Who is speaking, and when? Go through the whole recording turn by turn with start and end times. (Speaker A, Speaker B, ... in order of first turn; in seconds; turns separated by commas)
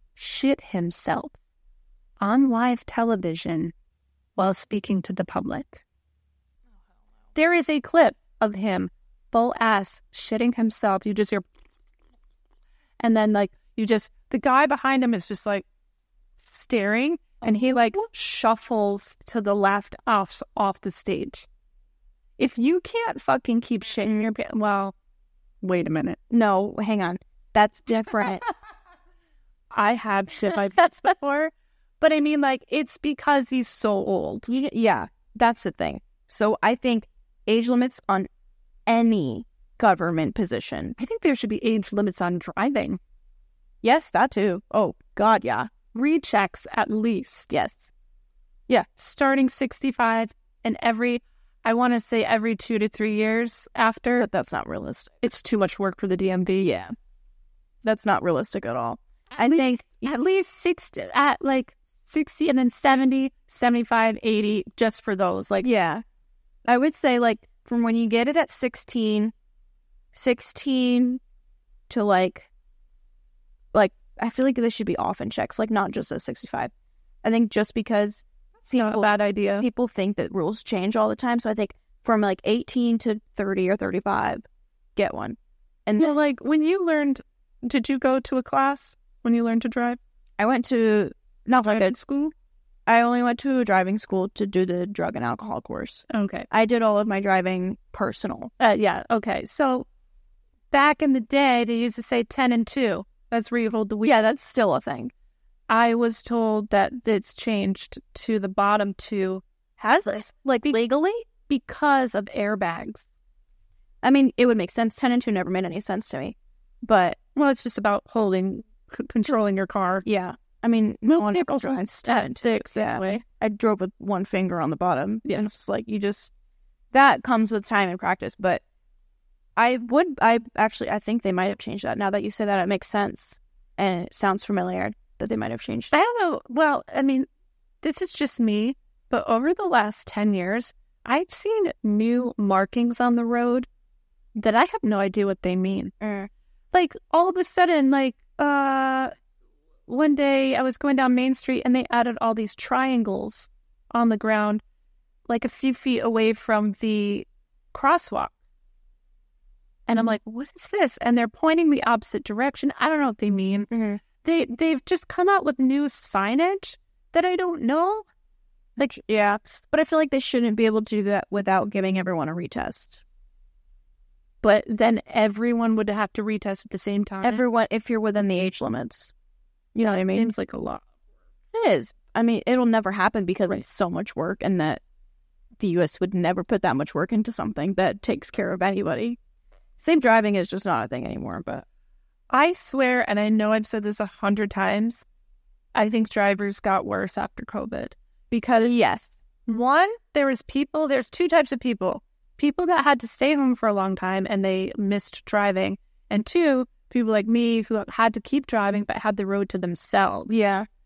Speaker A: 0.2-1.4, Speaker A: 2.2-3.7, Speaker A: 4.4-5.8, Speaker A: 7.4-11.5, Speaker A: 13.0-15.7, Speaker A: 16.4-21.5, Speaker A: 22.4-24.9, Speaker A: 25.6-26.2, Speaker B: 26.3-28.4, Speaker A: 29.7-34.5, Speaker B: 34.5-38.3, Speaker B: 38.9-41.0, Speaker A: 41.0-43.0, Speaker B: 43.8-45.7, Speaker A: 45.9-47.5, Speaker B: 47.5-47.9, Speaker A: 49.0-54.3, Speaker B: 54.2-55.2, Speaker A: 55.2-56.7, Speaker B: 56.6-56.9, Speaker B: 57.8-59.9, Speaker A: 59.3-65.7, Speaker B: 65.6-66.0, Speaker B: 66.7-69.3, Speaker B: 70.1-71.2, Speaker B: 71.9-72.5, Speaker B: 73.7-76.7, Speaker B: 77.2-79.1, Speaker A: 78.7-79.7, Speaker B: 79.6-84.5, Speaker B: 85.0-86.1, Speaker A: 86.0-90.0, Speaker B: 90.4-92.0, Speaker A: 91.6-92.3, Speaker B: 92.9-98.5, Speaker A: 96.1-96.5, Speaker A: 98.6-99.9, Speaker A: 100.7-104.2, Speaker B: 104.0-105.1, Speaker A: 105.7-109.4, Speaker B: 109.8-111.3, Speaker A: 110.0-110.8, Speaker A: 111.4-113.1, Speaker B: 114.0-117.2, Speaker A: 117.4-120.1, Speaker B: 120.0-126.3, Speaker A: 121.0-123.2, Speaker B: 126.9-128.6, Speaker B: 129.6-135.9, Speaker A: 135.9-137.3, Speaker A: 137.8-143.7, Speaker A: 144.3-145.9, Speaker B: 146.0-146.3, Speaker A: 146.7-149.1, Speaker A: 149.9-154.6, Speaker A: 155.3-158.3, Speaker A: 159.9-163.7, Speaker B: 163.7-164.0, Speaker A: 164.2-168.1, Speaker B: 169.0-173.0, Speaker A: 174.4-177.4, Speaker B: 177.2-179.1, Speaker B: 179.8-180.3, Speaker A: 180.1-180.8, Speaker B: 181.5-184.8, Speaker B: 185.6-189.2, Speaker B: 189.8-191.7, Speaker A: 192.3-195.1, Speaker A: 195.8-198.7, Speaker B: 198.6-199.2, Speaker A: 199.5-210.3, Speaker B: 210.3-210.7